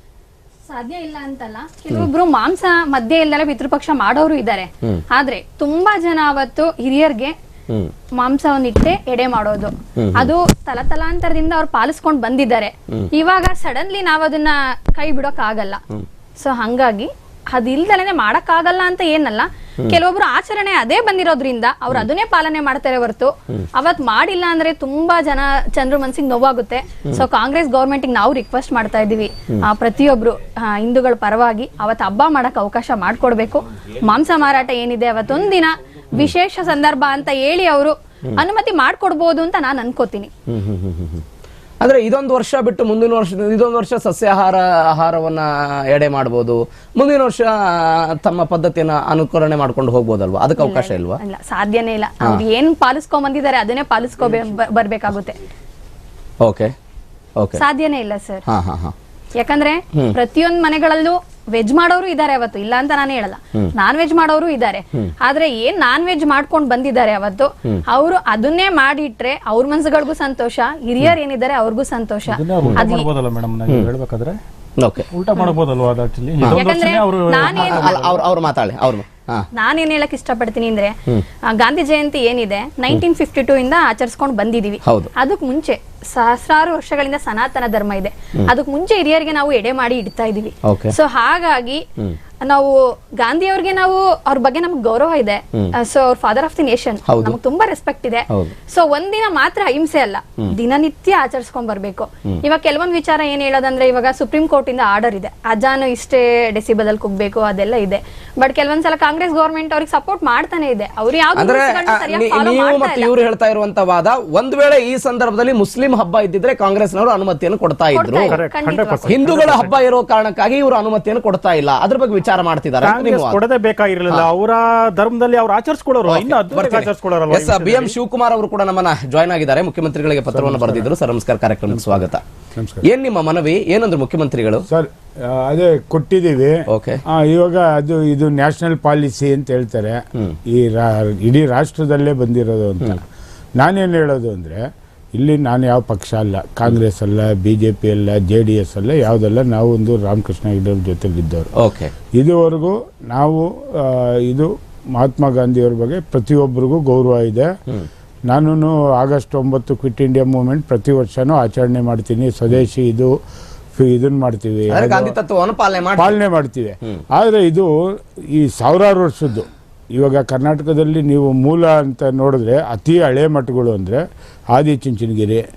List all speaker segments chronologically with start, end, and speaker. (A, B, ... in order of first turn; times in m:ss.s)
0:00.7-0:07.3 A
0:08.2-0:15.8 A
0:10.0-0:10.3 B
0:16.4-0:40.3 A
0:40.5-0:41.2 B
0:41.8-0:51.2 B
0:50.6-0:55.4 A
0:56.4-0:56.7 B
0:57.6-0:58.4 A
0:58.5-0:58.9 B
0:59.4-1:13.1 A
1:12.3-1:14.4 C
1:14.8-1:15.1 B
1:15.1-1:18.2 C
1:16.5-1:18.0 A
1:17.4-1:19.4 B
1:19.5-1:20.9 A
1:21.5-1:31.8 A
1:24.8-1:25.1 B
1:30.6-1:31.0 B
1:32.4-1:53.1 A
1:37.1-1:37.4 B
1:51.4-1:58.4 B
1:57.9-1:59.1 A
1:58.3-1:59.8 C
1:59.0-2:03.4 B
2:02.8-2:07.9 C
2:06.0-2:12.2 B
2:10.3-2:10.9 D
2:11.7-2:12.8 D
2:12.8-2:14.6 B
2:14.7-2:23.0 D
2:16.7-2:17.0 B
2:23.6-2:24.6 D
2:25.2-2:31.5 D
2:31.6-2:31.9 B
2:32.2-2:37.5 D
2:38.3-2:43.1 D
2:43.7-2:45.1 D
2:44.7-2:46.2 B
2:46.0-2:47.7 D
2:48.3-2:54.0 D
2:54.5-2:55.4 D